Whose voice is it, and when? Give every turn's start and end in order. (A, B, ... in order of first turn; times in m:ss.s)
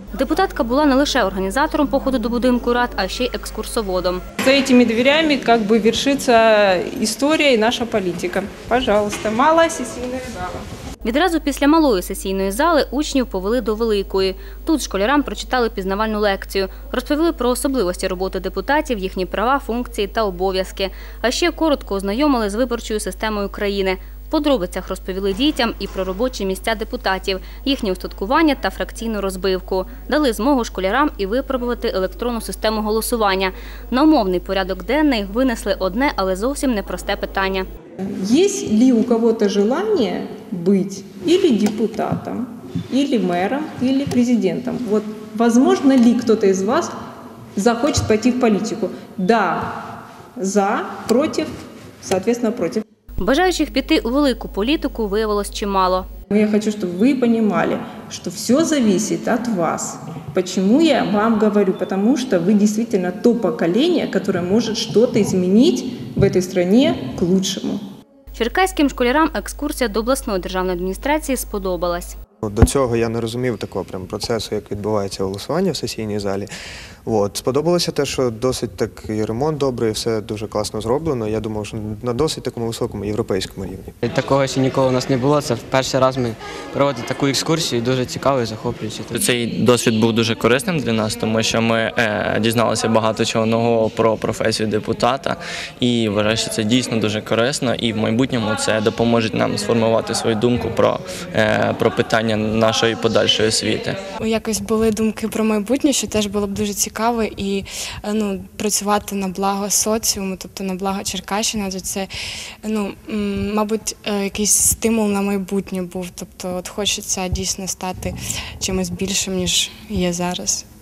0:00.1-0:04.2 A
0:04.4-0:10.6 B
0:11.0-0:37.6 A
0:38.2-0:46.9 B
0:47.6-0:49.8 B
0:50.4-0:51.5 B
0:52.0-0:52.8 B
0:53.2-0:56.0 A
0:56.3-1:07.8 B
1:08.3-1:12.1 A
1:12.4-1:16.5 C
1:17.0-1:23.9 C
1:24.0-1:29.1 D
1:29.1-1:44.0 E
1:44.2-1:52.1 F
1:52.6-2:00.6 F